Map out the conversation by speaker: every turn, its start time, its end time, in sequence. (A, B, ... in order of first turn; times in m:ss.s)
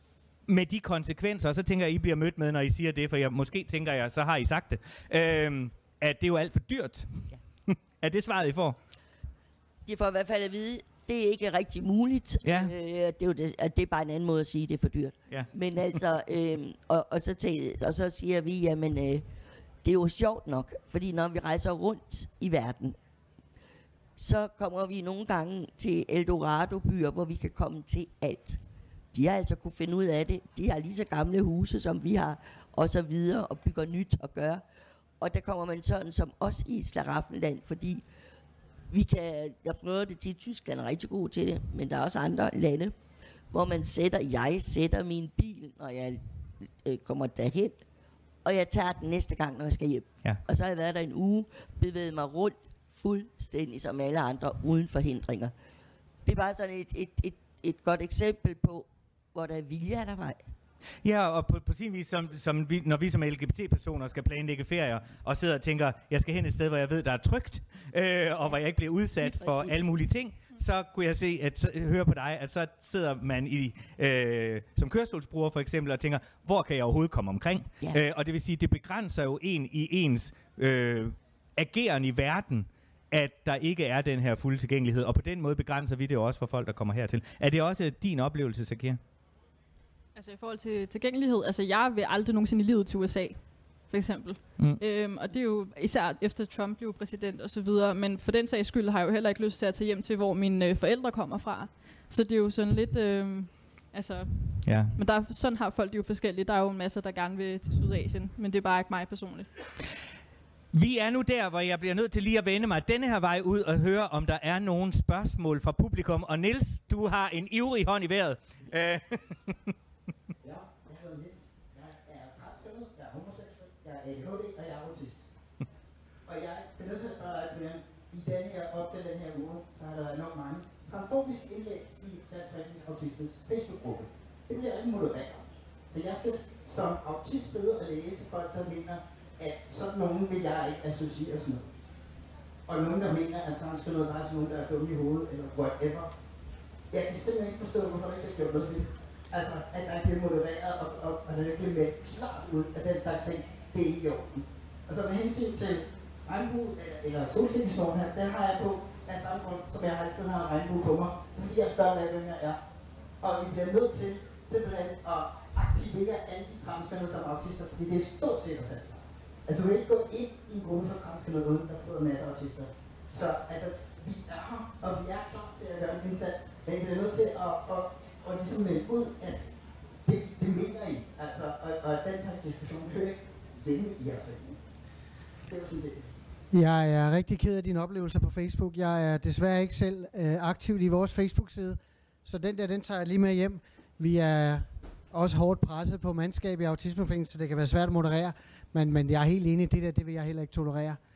0:00.5-0:08.8 A
0:09.9-0:19.2 B
0:12.4-0:12.7 A
0:15.3-0:16.0 A
0:19.8-0:23.0 B
0:24.2-0:28.6 B
0:29.1-0:34.6 B
0:35.2-0:38.0 B
0:38.9-0:43.0 B
0:43.5-0:46.2 B
0:46.8-0:47.8 B
0:48.4-0:55.5 B
0:56.3-1:00.4 B
1:01.0-1:29.0 A
1:09.2-1:09.9 B
1:30.2-1:33.4 C
1:33.9-1:44.3 C
1:44.6-1:45.0 A
1:44.9-1:49.5 C
1:50.7-1:59.7 A
2:00.4-2:05.3 D
2:06.3-2:21.6 D
2:22.7-2:26.1 D
2:26.9-2:42.6 D
2:43.2-2:59.5 D
3:00.0-3:04.6 D
3:05.4-3:06.1 D
3:06.5-3:21.0 E